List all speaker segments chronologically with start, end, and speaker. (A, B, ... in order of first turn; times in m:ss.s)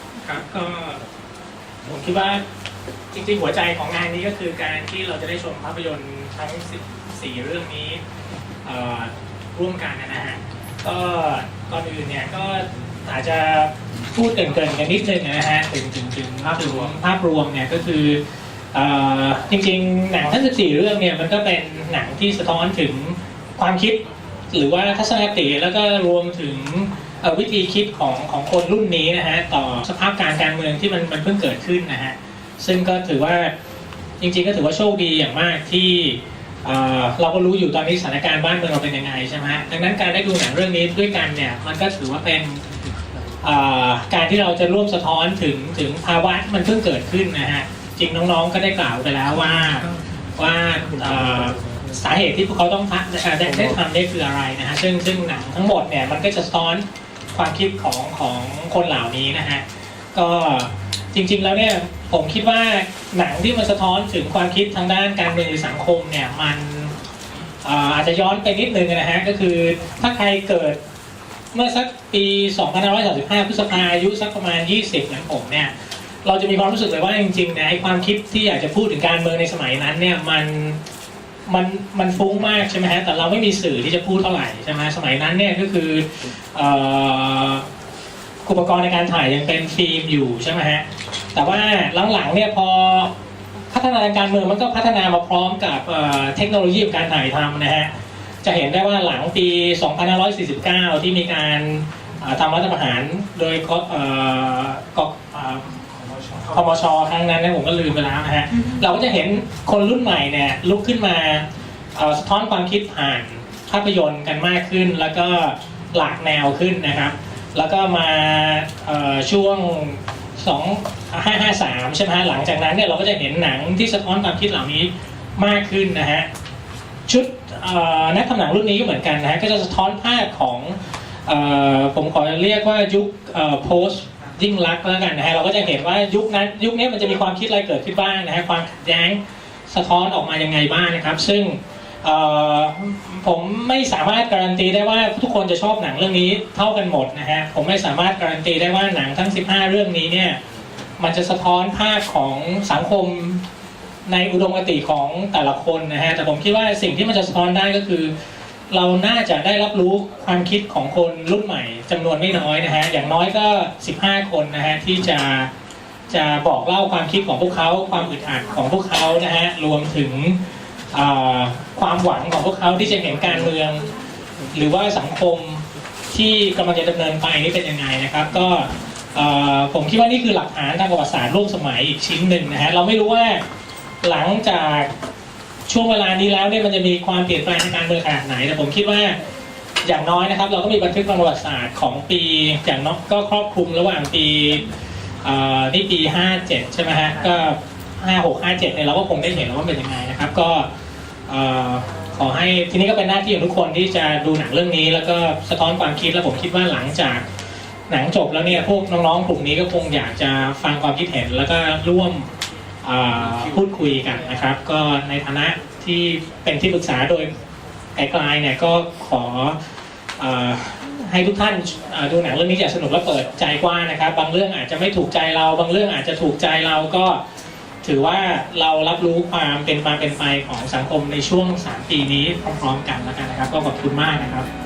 0:00.2-0:01.0 A
0:01.8-0:02.4 A
0:03.1-0:08.0 A
0:08.6-0:18.2 A
0:18.7-0:24.0 A
0:24.5-0:33.5 A
0:34.2-0:42.6 A
0:43.4-1:06.9 A
1:07.6-1:10.8 A
1:11.5-1:15.7 A
1:16.2-1:20.8 A
1:21.5-1:27.7 A
1:28.4-1:33.1 A
1:33.7-1:37.9 A
1:38.4-2:06.3 A
2:07.1-2:30.4 A
2:31.0-2:33.4 A
2:34.0-2:38.1 A
2:38.7-2:45.5 A
2:46.1-2:50.4 A
2:50.9-2:53.9 A
2:54.5-3:03.4 A
3:04.0-3:04.9 A
3:05.7-3:09.2 A
3:09.8-3:14.7 A
3:15.2-3:20.7 A
3:21.3-3:27.3 A
3:27.9-3:32.3 A
3:32.8-3:37.3 A
3:38.0-3:39.6 A
3:40.2-3:47.2 A
3:47.8-3:54.5 A